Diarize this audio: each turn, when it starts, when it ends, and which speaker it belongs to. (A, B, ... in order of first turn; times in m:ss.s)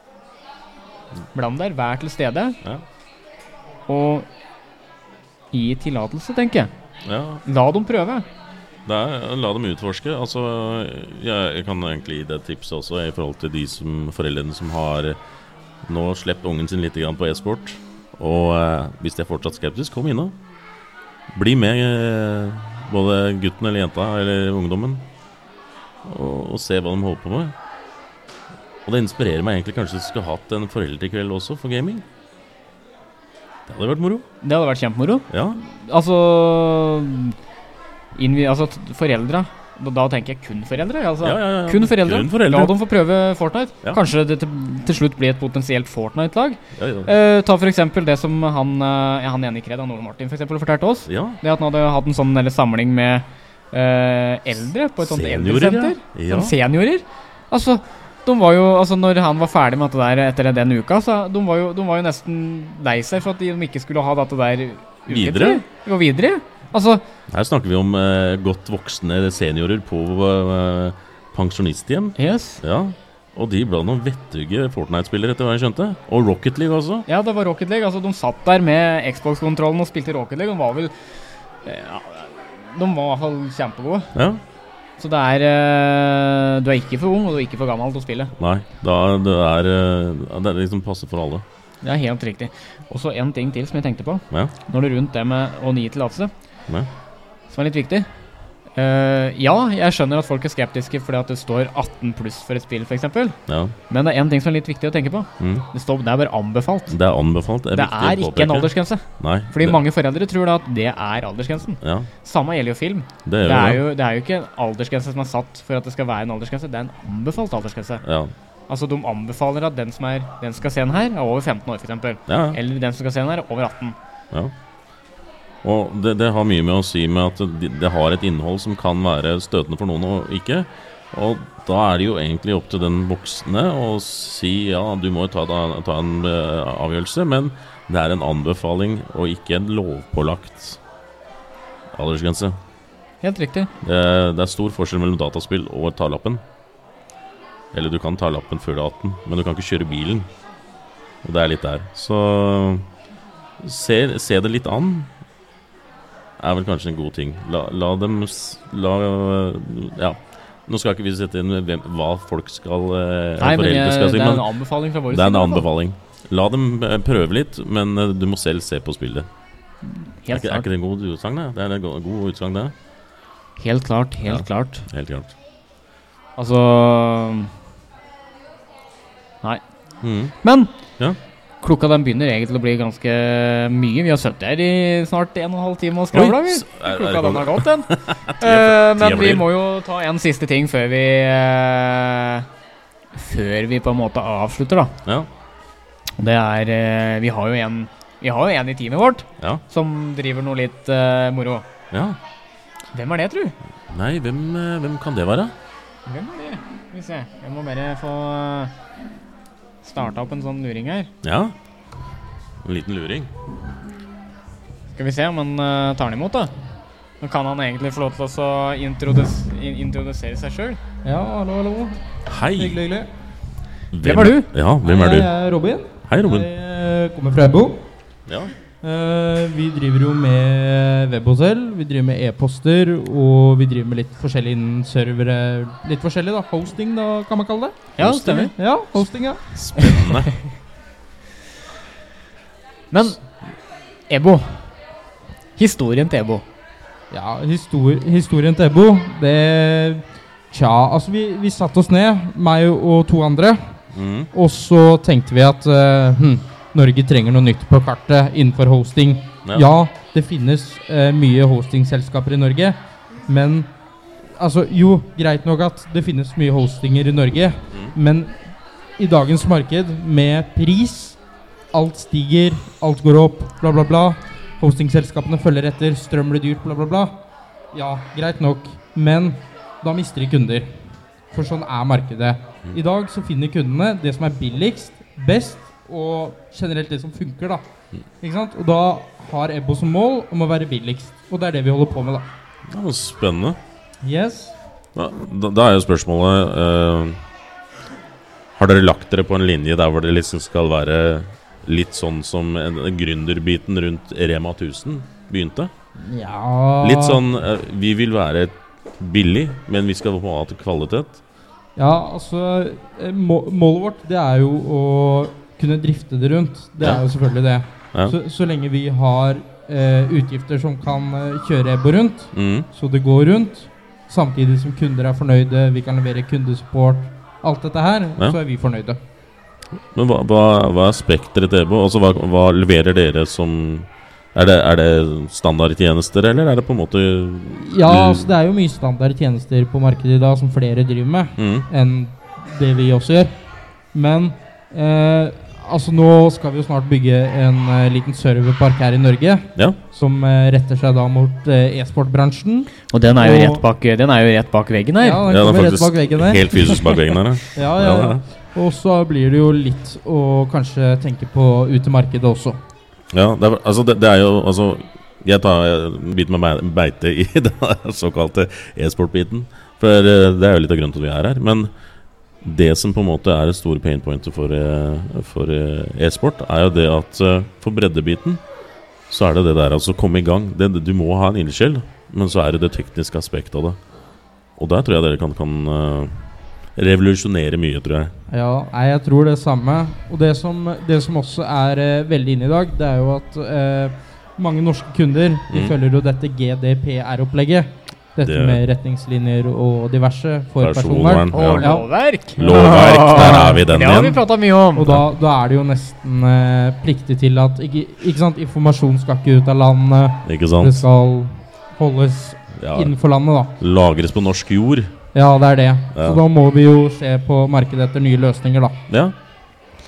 0:01.3-0:02.6 A
0:03.9-0:04.3 A
0:05.5-0:06.7 A
0:07.0-0:07.4 B
0:07.4-0:08.2 A
0:08.8-0:15.2 B
0:15.8-0:20.4 B
0:21.3-0:25.0 B
0:26.0-0:27.5 B
0:28.8-0:32.0 B
0:33.7-0:34.2 B
0:34.4-0:37.4 A
0:35.3-0:35.6 B
0:38.2-1:07.0 A
0:41.2-0:42.7 B
0:46.8-0:47.1 B
0:51.1-0:51.4 B
0:55.0-0:56.6 B
1:05.1-1:05.6 B
1:07.3-1:17.0 B
1:12.2-1:12.6 A
1:17.1-1:20.9 A
1:21.6-1:24.1 A
1:24.1-1:24.4 B
1:25.0-1:28.3 A
1:28.4-1:31.4 B
1:31.8-1:36.3 A
1:37.5-1:38.1 A
1:38.8-1:43.4 A
1:43.5-1:43.7 B
1:43.9-1:47.0 A
1:45.4-1:45.6 B
1:46.9-1:49.8 B
1:47.7-1:58.0 A
1:51.8-1:52.1 B
1:53.2-1:53.8 B
1:58.0-1:58.3 B
1:58.7-2:04.0 A
2:02.3-2:02.6 B
2:05.6-2:20.8 B
2:21.9-2:22.6 B
2:23.2-2:23.7 A
2:23.8-2:26.4 B
2:27.7-2:30.3 B
2:31.2-2:32.8 B
2:33.6-2:35.1 B
2:36.4-2:44.5 B
2:43.4-2:45.6 A
2:45.1-2:49.3 B
2:49.8-2:50.6 A
2:50.3-2:52.7 B
2:53.6-2:54.8 A
2:54.2-2:55.3 B
2:56.4-2:57.5 A
3:00.0-3:00.3 B
3:00.4-3:00.7 A
3:01.6-3:12.4 A
3:06.1-3:09.4 B
3:13.1-3:14.9 A
3:16.2-3:21.6 A
3:21.9-3:22.2 B
3:22.9-3:23.5 A
3:23.9-3:25.5 B
3:26.0-3:28.7 A
3:29.8-3:31.1 A
3:31.2-3:31.5 B
3:32.6-3:33.3 B
3:34.9-3:36.5 A
3:37.2-3:40.8 A
3:41.0-3:43.1 C
3:42.3-3:42.8 B
3:43.9-3:45.3 B
3:44.0-3:44.5 A
3:44.8-3:47.8 C
3:46.1-3:46.5 B
3:48.3-3:48.5 B
3:48.8-3:57.9 C
3:58.0-3:58.5 A
3:58.0-3:58.5 B
3:58.5-3:59.4 C
3:59.5-4:00.4 B
4:02.9-4:03.3 A
4:04.1-4:04.7 A
4:05.6-4:06.4 A
4:07.1-4:13.6 C
4:13.9-4:14.3 B
4:14.3-4:23.7 C
4:24.3-4:28.4 C
4:29.0-4:31.2 C
4:31.7-4:37.1 C
4:37.7-4:40.7 C
4:41.3-4:47.6 C
4:48.2-4:52.3 C
4:52.7-4:53.6 B
4:54.0-4:54.5 C
4:54.9-4:57.2 B
4:58.6-5:05.7 B
5:06.0-5:07.2 C
5:06.8-5:11.2 B
5:11.8-5:29.0 C
5:22.3-5:22.7 B
5:29.9-5:38.3 B
5:37.5-5:43.4 C
5:41.4-5:41.7 B
5:43.9-5:53.6 C
5:52.9-5:55.2 A
5:55.0-5:56.9 C
5:55.3-5:58.2 B
5:57.5-6:02.6 C
6:03.1-6:11.7 B
6:12.4-6:18.4 B
6:19.1-6:23.8 B
6:24.6-6:26.2 B
6:26.7-6:28.1 B
6:28.3-6:41.8 C
6:35.5-6:35.8 B
6:38.2-6:38.6 B
6:40.6-6:41.7 B
6:41.3-6:45.0 A
6:42.4-6:44.2 B
6:42.4-6:43.6 C
6:44.8-6:53.5 C
6:50.2-6:50.8 B
6:52.6-6:52.9 B
6:53.6-6:54.9 B
6:55.1-6:58.8 C
6:55.9-6:56.2 B
6:58.9-6:59.1 B